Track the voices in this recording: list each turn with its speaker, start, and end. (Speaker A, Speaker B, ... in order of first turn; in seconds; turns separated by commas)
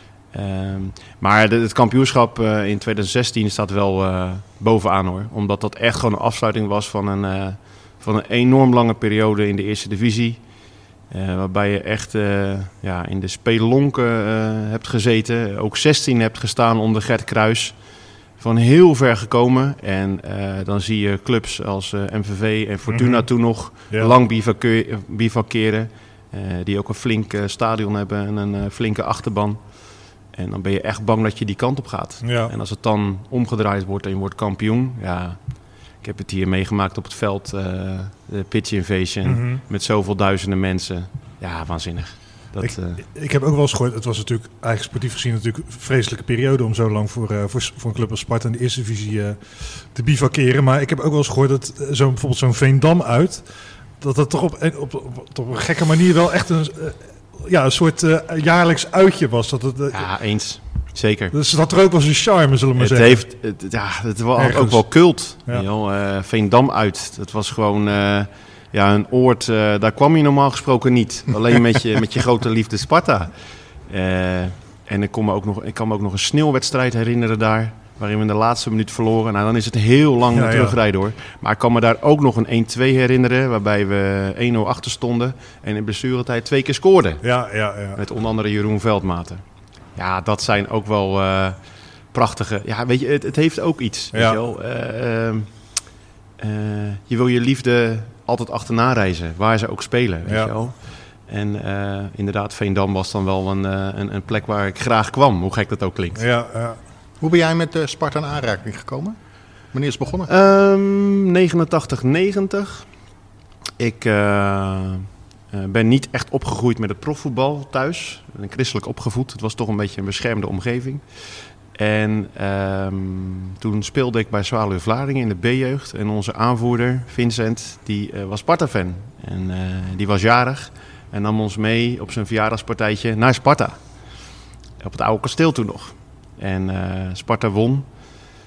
Speaker A: 0.3-43.0, Speaker B: 22.9-24.1, Speaker B: 32.2-32.5, Speaker B: 39.2-39.6, Speaker B: 42.6-60.1, Speaker A: 59.9-61.3, Speaker B: 61.3-63.3, Speaker A: 62.8-87.2, Speaker B: 64.3-65.7, Speaker B: 80.3-80.8, Speaker B: 87.2-88.0, Speaker A: 88.0-95.8, Speaker B: 94.1-94.4, Speaker A: 96.4-106.2, Speaker B: 100.2-100.5, Speaker B: 106.1-106.8, Speaker C: 107.2-109.2, Speaker C: 109.7-110.3, Speaker A: 110.3-113.0, Speaker A: 113.8-137.9